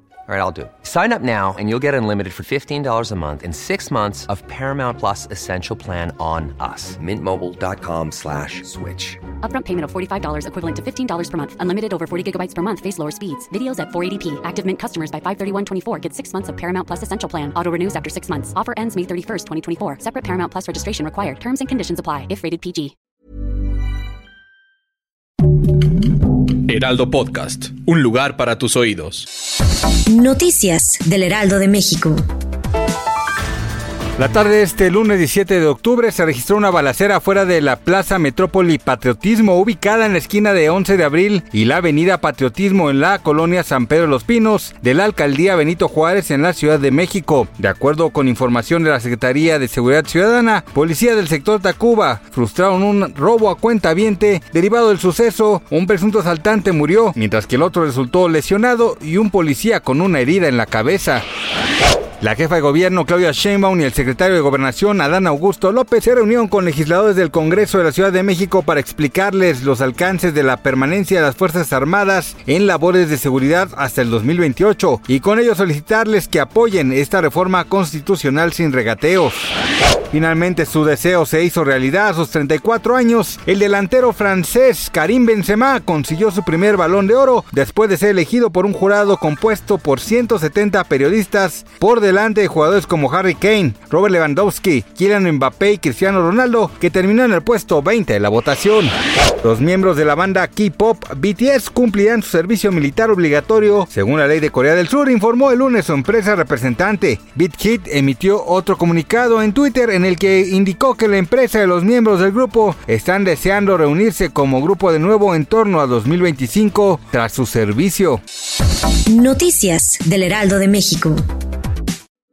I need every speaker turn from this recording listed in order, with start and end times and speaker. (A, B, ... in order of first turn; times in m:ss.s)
0:00.3-0:09.2 A
0:09.4-0:22.9 B
0:26.6-0:29.3 C
0:30.1-0:32.2 D
0:34.2-1:01.2 E
1:02.2-1:19.5 E
1:20.1-1:58.2 E
1:59.1-2:01.2 D